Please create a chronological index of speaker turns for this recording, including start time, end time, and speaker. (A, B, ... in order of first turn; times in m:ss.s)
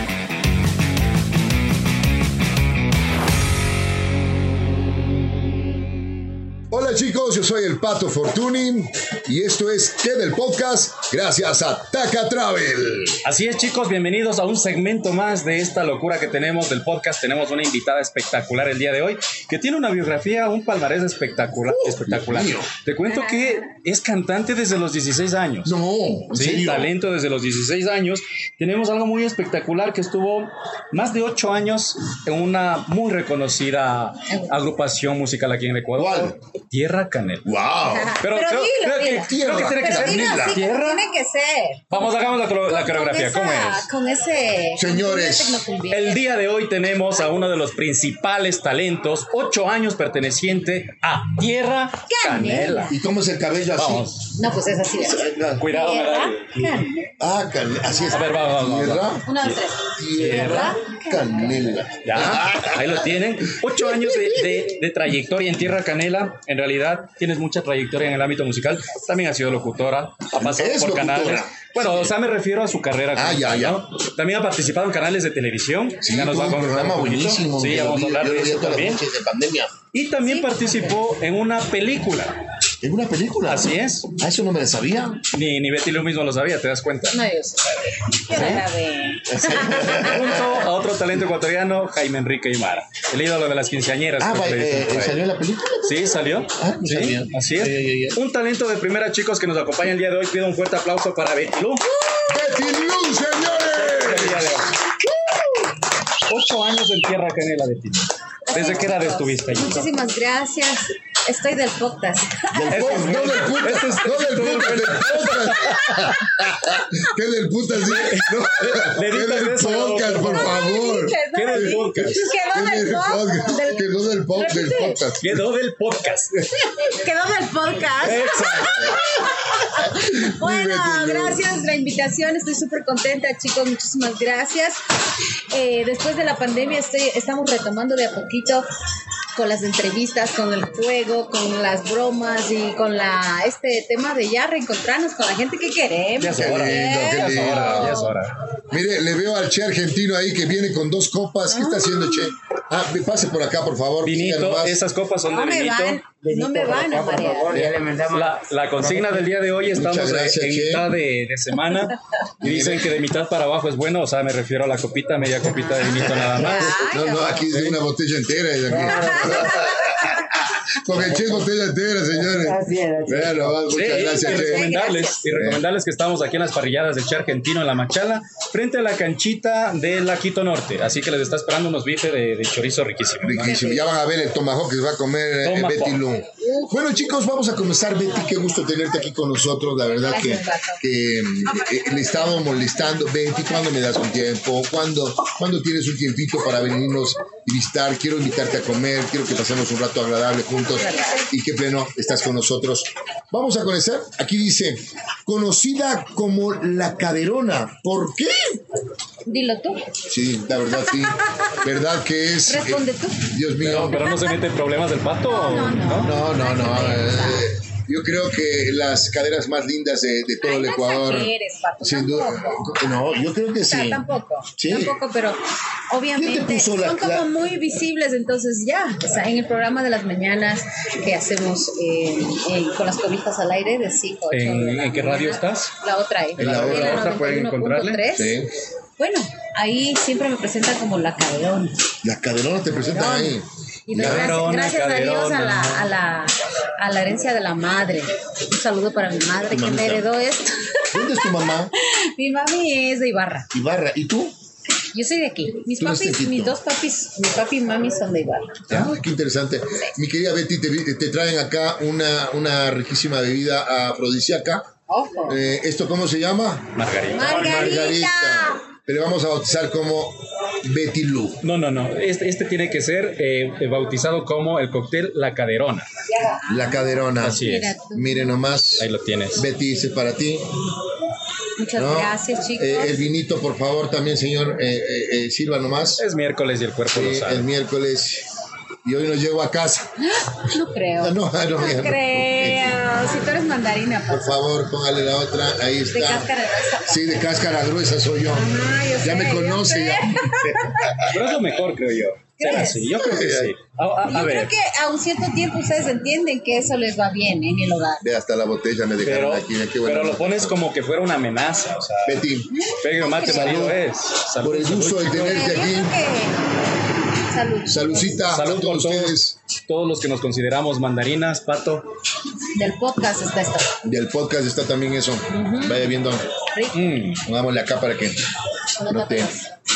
0:06.7-0:13.2 A
0:13.2-0:25.7 B
0:21.6-0:22.7 A
0:23.0-0:23.8 C
0:25.6-0:26.9 A
0:26.3-0:37.5 B
0:36.0-0:36.4 A
0:37.4-0:38.2 A
0:37.9-0:46.2 C
0:38.2-0:41.0 B
0:39.2-0:40.6 A
0:41.9-0:43.9 B
0:44.8-0:45.6 A
0:45.9-0:53.0 B
0:52.1-0:53.0 C
0:52.9-0:54.1 A
0:53.8-0:54.2 B
0:54.3-0:57.1 C
0:55.0-0:55.6 A
0:55.6-0:56.9 B
0:57.2-0:59.3 A
0:58.1-0:59.5 B
0:59.2-1:01.7 C
0:59.9-1:04.7 A
1:00.2-1:00.8 B
1:02.0-1:19.0 B
1:10.4-1:12.1 A
1:13.1-1:13.8 A
1:16.0-1:19.7 A
1:19.9-1:22.3 B
1:20.2-1:20.9 C
1:22.8-1:25.2 A
1:23.5-1:24.1 B
1:25.3-1:27.2 B
1:27.1-1:30.2 C
1:28.3-1:28.6 A
1:29.3-1:30.6 A
1:29.9-1:35.2 B
1:34.2-1:38.2 A
1:35.8-1:41.8 B
1:41.8-1:42.6 C
1:42.3-1:44.6 A
1:43.7-1:44.8 B
1:46.3-1:49.9 B
1:48.5-1:53.0 C
1:52.5-2:05.4 A
1:52.7-1:55.8 B
1:55.6-1:56.4 C
1:57.8-2:00.6 B
2:00.2-2:05.0 C
2:01.3-2:02.3 B
2:05.2-2:06.4 B
2:06.5-2:14.8 C
2:08.0-2:09.0 B
2:09.8-2:11.5 A
2:15.5-2:18.7 C
2:19.3-2:28.2 C
2:26.2-2:28.3 B
2:26.3-2:28.0 A
2:28.7-2:34.8 A
2:31.5-2:32.3 C
2:34.0-2:36.0 B
2:35.3-2:37.7 C
2:36.2-2:39.3 D
2:37.5-2:37.8 A
2:38.1-2:46.8 B
2:39.7-2:40.9 A
2:42.4-2:42.9 A
2:45.4-2:47.5 C
2:45.9-2:54.7 A
2:47.5-2:47.8 B
2:48.7-2:49.7 D
2:49.1-2:50.2 C
2:50.9-2:51.5 D
2:52.1-2:53.7 D
2:53.7-3:03.6 B
2:53.9-2:55.2 C
2:55.4-2:55.6 A
3:03.2-3:28.6 A
3:03.4-3:03.9 C
3:05.4-3:06.0 B
3:10.1-3:10.8 C
3:20.7-3:21.3 C
3:29.2-3:30.0 C
3:30.1-3:34.0 A
3:30.8-3:31.5 C
3:32.5-3:33.3 C
3:33.6-3:36.1 B
3:33.9-3:34.4 C
3:35.3-3:37.5 C
3:36.0-3:44.0 A
3:40.4-3:42.9 C
3:43.7-3:58.4 C
3:44.6-3:45.0 A
3:46.1-3:47.3 A
3:54.3-3:55.7 B
3:56.4-3:58.0 B
3:56.4-3:57.1 A
3:58.1-3:58.5 A
3:59.0-4:01.8 C
4:02.0-4:04.3 A
4:02.8-4:13.5 C
4:03.9-4:05.9 B
4:09.4-4:10.1 A
4:10.9-4:11.7 A
4:13.5-4:14.3 A
4:14.9-4:18.6 C
4:15.8-4:16.6 A
4:18.7-4:24.7 A
4:24.9-4:25.4 C
4:25.2-4:31.4 A
4:26.8-4:27.6 B
4:27.1-4:28.6 C
4:31.4-4:35.9 B
4:36.2-4:38.3 C
4:36.5-4:40.5 A
4:37.2-4:37.8 B
4:38.8-4:39.5 B
4:41.6-4:43.0 C
4:41.8-4:46.0 A
4:46.0-4:47.5 B
4:46.9-4:48.3 A
4:48.8-4:49.9 A
4:50.0-4:54.3 C
4:51.0-4:52.8 A
4:54.1-4:56.3 A
4:55.9-4:57.1 C
4:56.8-5:01.1 A
4:58.3-5:01.1 C
5:01.1-5:04.5 B
5:02.4-5:03.2 C
5:02.9-5:03.5 A
5:04.0-5:08.0 C
5:08.0-5:10.6 A
5:09.0-5:12.2 B
5:12.0-5:12.5 A
5:12.5-5:13.8 C
5:12.8-5:15.6 B
5:13.2-5:13.8 A
5:14.4-5:16.0 A
5:15.1-5:16.6 C
5:17.2-5:18.2 C
5:17.7-5:19.4 A
5:18.3-5:21.8 B
5:22.5-5:23.7 C
5:23.8-5:26.3 A
5:25.3-5:25.9 C
5:26.5-5:27.0 C
5:26.7-5:27.2 B
5:27.2-5:28.2 A
5:28.8-5:29.5 C
5:28.9-5:29.3 A